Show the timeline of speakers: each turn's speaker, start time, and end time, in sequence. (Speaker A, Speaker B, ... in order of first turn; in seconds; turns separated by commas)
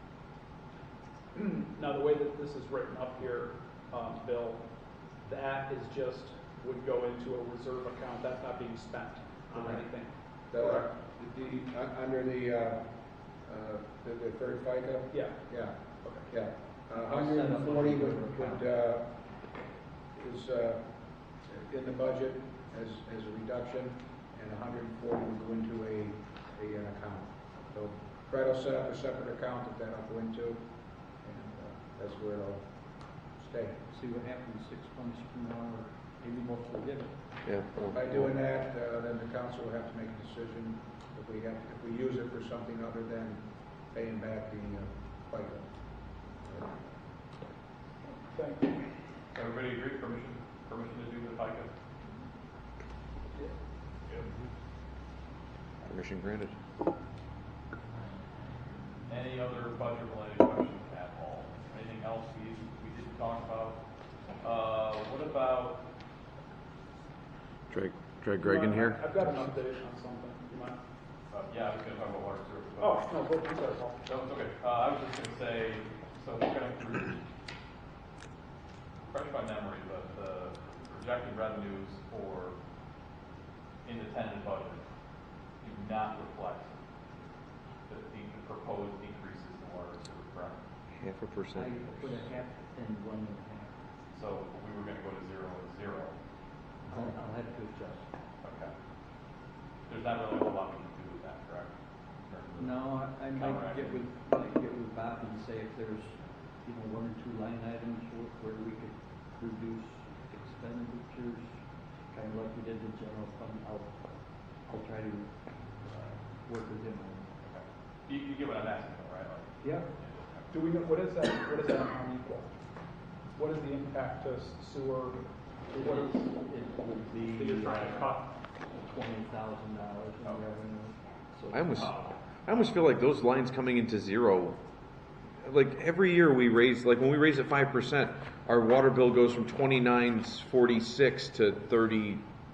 Speaker A: 1.3-4.6, Speaker A: 5.2-10.8, Speaker B: 10.5-19.2, Speaker A: 16.0-16.3, Speaker C: 17.1-18.6, Speaker B: 20.1-20.8, Speaker B: 21.4-30.6, Speaker B: 31.1-33.8, Speaker C: 33.9-37.4, Speaker D: 37.4-38.3, Speaker B: 37.9-45.6, Speaker B: 46.3-46.7, Speaker A: 48.3-48.8, Speaker E: 49.3-51.7, Speaker D: 55.8-56.5, Speaker E: 59.0-63.8, Speaker E: 64.4-65.8, Speaker D: 67.7-69.0, Speaker A: 68.4-70.8, Speaker E: 71.3-73.0, Speaker A: 72.8-74.0, Speaker E: 74.0-77.2, Speaker E: 79.1-82.6, Speaker E: 83.8-84.8, Speaker E: 85.6-86.8, Speaker E: 87.9-90.6, Speaker D: 90.9-92.2, Speaker C: 91.5-93.7, Speaker E: 94.1-96.1, Speaker C: 96.9-98.0, Speaker E: 98.4-98.7, Speaker E: 99.9-101.7, Speaker E: 102.3-104.1, Speaker C: 102.6-111.5, Speaker C: 112.1-114.0, Speaker C: 114.7-117.3, Speaker E: 117.4-120.5, Speaker C: 119.6-119.9, Speaker A: 120.5-122.5, Speaker A: 123.3-125.2, Speaker C: 125.7-128.2, Speaker A: 125.8-126.1, Speaker E: 127.4-128.2, Speaker C: 128.7-131.9, Speaker D: 131.5-134.6, Speaker E: 131.7-132.1, Speaker D: 135.4-142.2